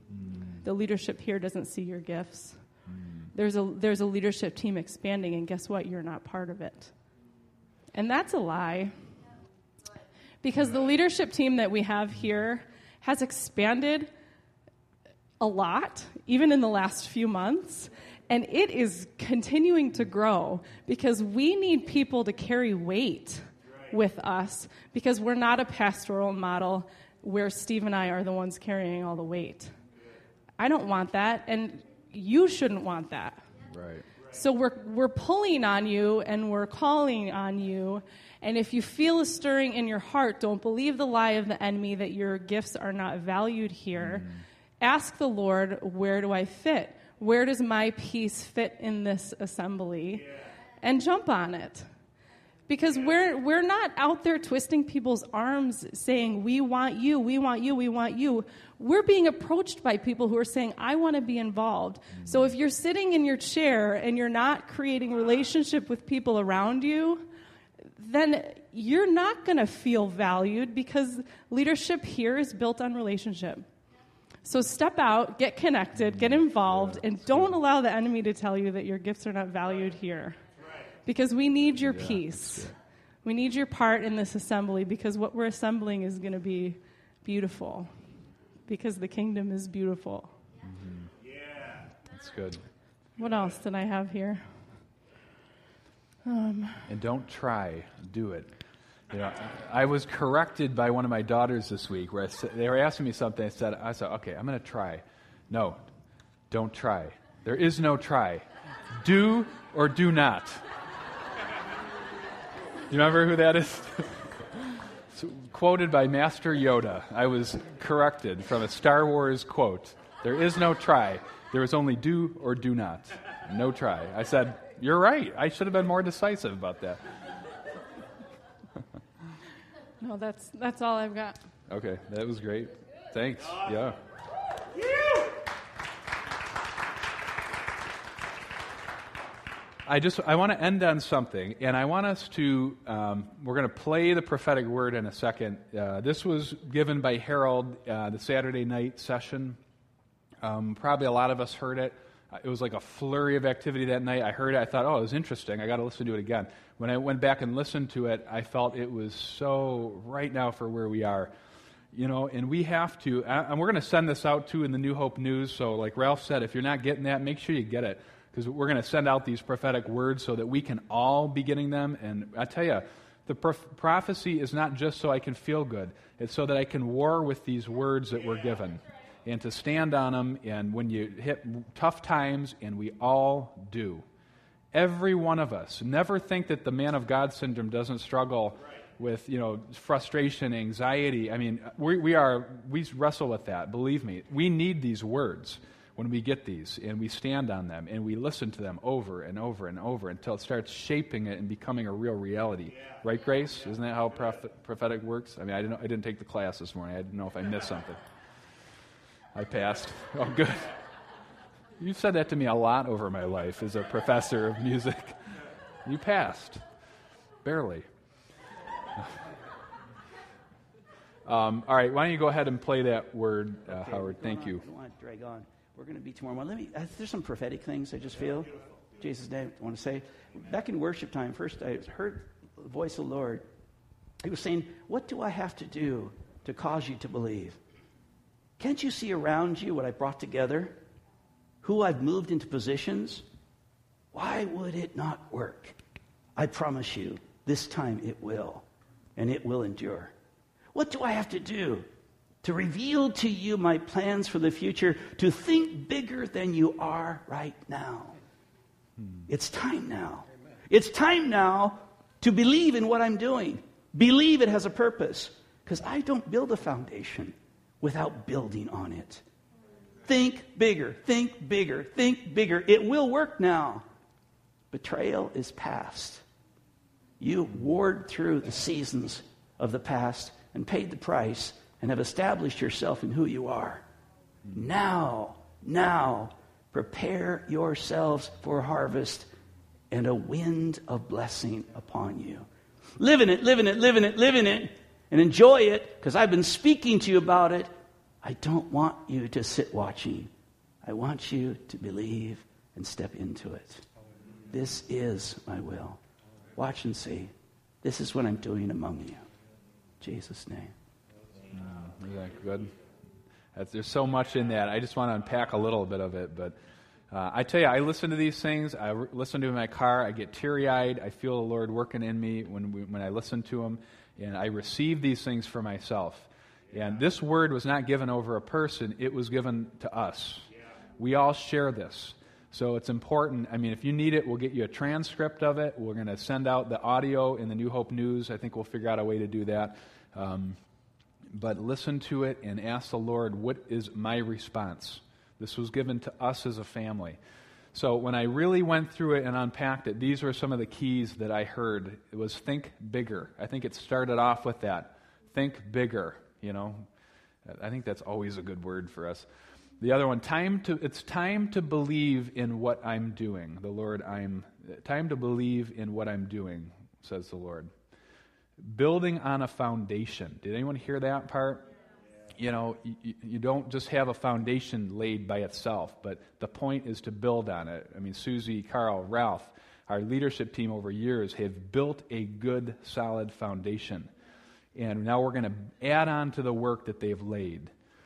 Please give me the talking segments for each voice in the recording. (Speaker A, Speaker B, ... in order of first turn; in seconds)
Speaker A: 0.1-0.6, 2.9-3.3, 33.7-34.0, 44.0-44.4, 76.1-77.6, 81.7-82.7, 90.6-91.1, 92.1-92.6, 96.9-98.5, 99.1-105.8, 106.5-110.6, 112.9-127.0, 131.7-134.0, 139.8-149.6, 150.4-161.3, 161.9-184.0, 184.7-208.0, 209.3-210.8, 211.8-216.6, 217.4-217.9, 221.2-224.6, 259.0-259.2, 311.5-312.7, 313.5-316.6, 317.1-340.6, 341.3-347.2, 347.7-356.9, 357.4-359.2, 359.8-367.7, 368.6-371.7, 372.4-384.1, 384.7-387.7
Speaker B: 0.6-2.6, 3.3-6.9, 7.9-8.9, 10.4-14.1, 15.4-29.7, 30.6-33.4, 34.3-44.3, 44.8-51.9, 52.7-67.3, 68.0-73.7, 74.4-80.4, 81.0-82.7, 83.2-87.9, 88.7-90.3, 93.2-94.4, 96.2-96.9, 130.0-131.4
Speaker C: 223.7-233.4, 234.2-237.6, 238.6-240.8, 241.6-243.2, 244.1-245.8, 246.3-250.1, 250.7-251.9, 252.4-258.1, 259.3-269.2, 270.0-273.8, 274.7-276.2, 277.2-283.8, 284.5-289.3, 289.9-292.4, 293.0-300.3, 300.8-303.9, 304.5-306.0, 306.6-309.3, 310.0-310.7